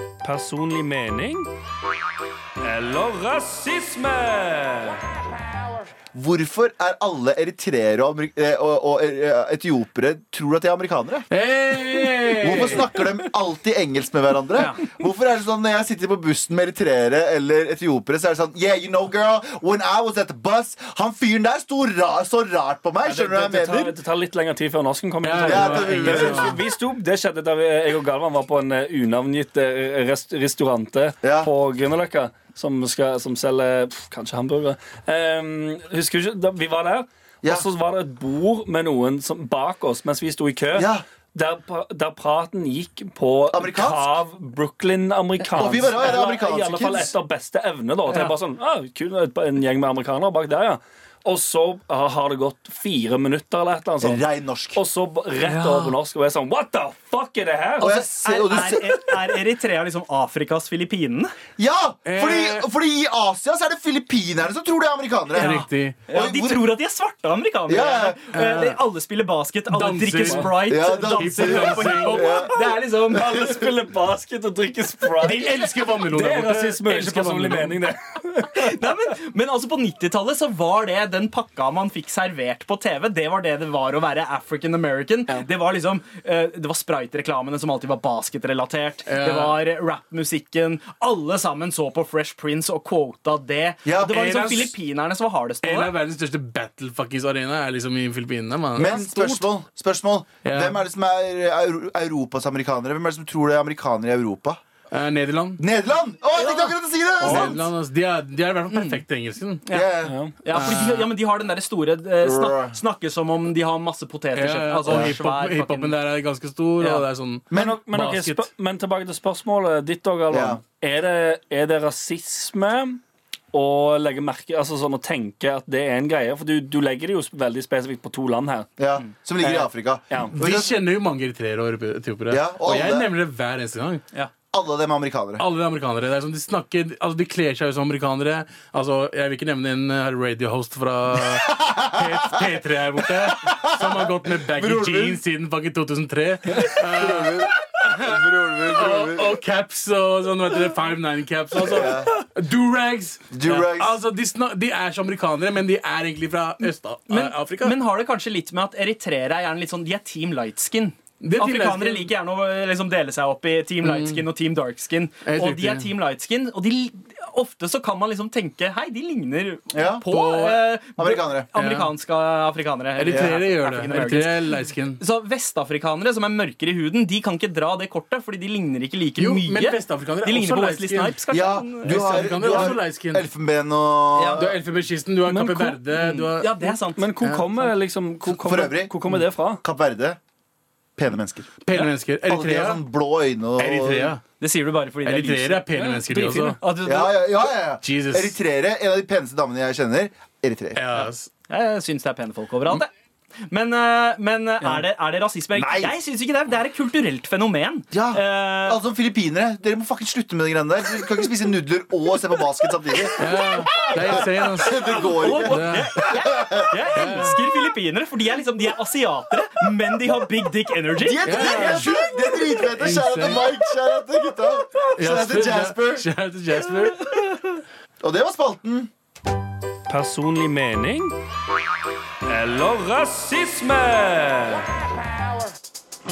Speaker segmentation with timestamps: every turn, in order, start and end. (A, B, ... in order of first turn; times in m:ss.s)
0:00.2-0:01.5 A
0:02.6-0:05.0 A
0:06.1-0:11.3 B
0:11.3-0:13.0 C
0:12.4-0:24.0 B
0:14.6-0:14.8 D
0:23.0-0:54.2 A
0:25.2-0:26.6 C
0:25.4-0:26.6 B
0:31.2-0:31.5 B
0:40.7-0:41.0 B
0:43.5-0:44.2 B
0:45.5-0:47.1 B
0:48.1-0:48.3 D
0:54.0-0:54.8 B
0:54.8-0:58.0 A
0:55.4-0:55.9 D
0:57.8-0:59.2 B
0:57.8-1:01.3 D
1:01.6-1:06.7 B
1:02.0-1:02.7 C
1:05.3-1:13.5 D
1:05.4-1:06.0 C
1:07.7-1:08.2 B
1:08.3-1:08.8 C
1:09.7-1:12.4 C
1:10.7-1:12.6 B
1:12.3-1:18.9 A
1:15.2-1:17.9 C
1:18.5-1:35.9 D
1:29.1-1:29.6 C
1:33.8-1:34.2 B
1:34.1-1:34.8 C
1:35.6-1:39.4 C
1:38.8-1:44.6 B
1:40.4-1:40.8 C
1:44.9-1:45.6 C
1:45.6-1:47.7 B
1:46.4-1:46.7 D
1:47.2-1:49.6 C
1:48.7-1:49.0 D
1:49.6-1:55.9 D
1:49.7-1:50.2 B
1:50.0-1:50.4 A
1:50.5-1:51.0 C
1:52.2-1:52.8 B
1:54.4-1:58.5 C
1:54.9-1:55.1 B
1:57.5-1:57.8 B
1:57.5-2:03.0 A
2:00.3-2:00.6 B
2:03.5-2:08.7 A
2:08.8-2:10.8 B
2:09.4-2:10.3 A
2:10.3-2:14.0 C
2:12.3-2:13.1 B
2:14.5-2:15.4 B
2:15.4-2:37.8 C
2:21.3-2:22.4 B
2:23.3-2:25.2 B
2:26.5-2:29.4 B
2:31.6-2:32.1 B
2:33.3-2:34.0 B
2:37.1-3:02.7 D
2:41.2-2:42.1 C
2:43.8-2:44.2 C
2:45.2-2:45.9 C
2:49.7-2:50.0 B
2:50.1-2:50.7 C
2:51.0-2:51.5 B
2:51.6-2:51.9 C
2:53.0-2:55.0 C
2:53.1-2:53.4 B
2:59.2-3:01.2 C
3:01.3-3:04.6 B
3:01.8-3:03.2 C
3:04.1-3:04.4 D
3:04.4-3:07.5 C
3:05.3-3:05.8 A
3:05.9-3:07.1 D
3:06.9-3:09.6 A
3:08.3-3:08.9 B
3:09.6-3:10.2 B
3:11.0-3:11.6 B
3:11.6-3:12.8 C
3:12.3-3:14.1 B
3:13.6-3:14.2 C
3:14.4-3:15.6 D
3:15.0-3:16.6 C
3:15.7-3:16.6 A
3:16.6-3:17.3 D
3:16.8-3:21.0 B
3:17.8-3:18.4 C
3:20.7-3:21.3 C
3:21.5-3:22.9 D
3:23.5-3:28.8 D
3:25.6-3:25.9 B
3:27.9-3:33.3 B
3:33.2-3:36.0 C
3:33.7-3:34.1 D
3:33.8-3:36.9 B
3:34.8-3:41.8 D
3:36.9-3:37.4 C
3:41.0-3:46.1 B
3:41.2-3:43.5 C
3:45.0-3:47.2 C
3:48.0-3:48.9 B
3:49.9-3:51.1 A
3:52.2-3:54.7 A